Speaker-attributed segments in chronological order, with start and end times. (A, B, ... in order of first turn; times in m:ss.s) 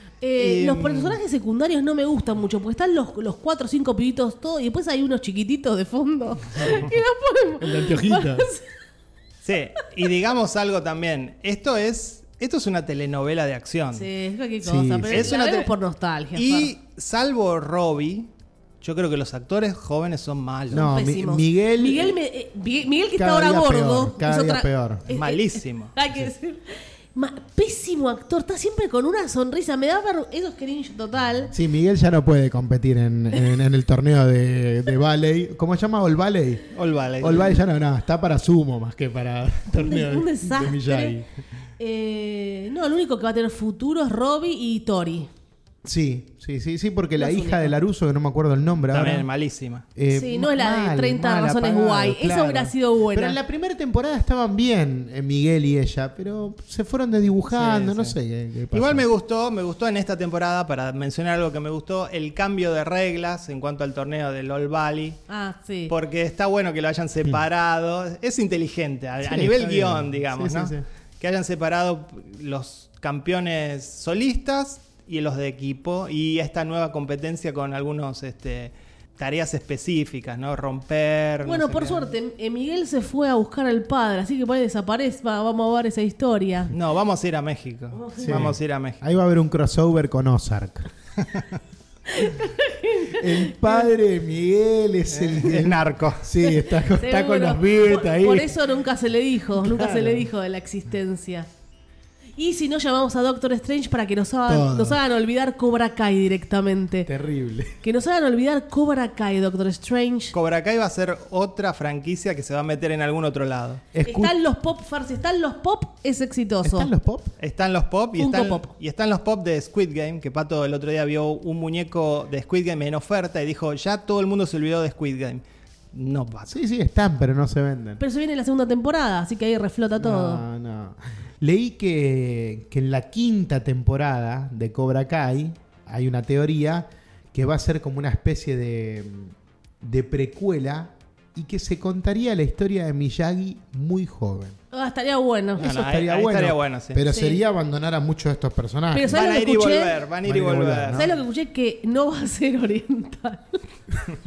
0:00.2-0:08.7 A
0:00.4-0:01.2 B
0:07.6-0:08.5 C
0:09.4-0:14.1 B
0:13.9-0:16.7 A
0:14.6-0:15.3 C
0:15.1-0:15.7 B
0:16.3-0:20.9 B
0:20.7-0:22.2 C
0:20.7-0:31.5 A
0:23.2-0:25.0 C
0:25.1-0:25.9 B
0:31.5-0:36.7 C
0:36.7-0:37.6 B
0:37.2-0:41.2 C
0:39.7-0:41.2 A
0:41.8-0:45.3 A
0:45.8-0:49.3 C
0:47.2-0:47.7 A
0:48.9-0:49.8 B
0:50.0-0:59.0 C
0:50.1-0:53.4 A
0:57.5-0:58.1 B
0:58.7-1:05.2 B
1:05.3-1:05.9 A
1:05.9-1:22.1 B
1:09.2-1:10.8 C
1:21.4-1:26.7 A
1:26.7-1:29.0 B
1:27.9-1:28.5 A
1:28.2-1:30.9 C
1:31.2-1:31.6 B
1:32.1-1:33.8 A
1:33.1-1:38.6 C
1:35.1-1:36.3 B
1:36.4-1:41.5 A
1:39.5-1:40.3 C
1:42.4-1:47.1 A
1:44.5-1:45.0 C
1:47.0-1:47.8 C
1:47.8-1:50.3 A
1:50.3-1:53.8 B
1:53.9-1:54.3 C
1:54.0-1:56.9 A
1:56.6-1:57.3 C
1:57.4-2:06.5 B
1:58.2-1:58.7 A
2:06.5-2:08.0 C
2:08.0-2:10.4 A
2:10.0-2:24.6 C
2:24.7-2:25.6 A
2:25.6-2:29.4 C
2:25.6-2:27.0 B
2:27.1-2:27.4 A
2:28.9-2:30.0 A
2:29.1-2:31.1 B
2:30.2-2:31.1 C
2:30.9-2:33.6 A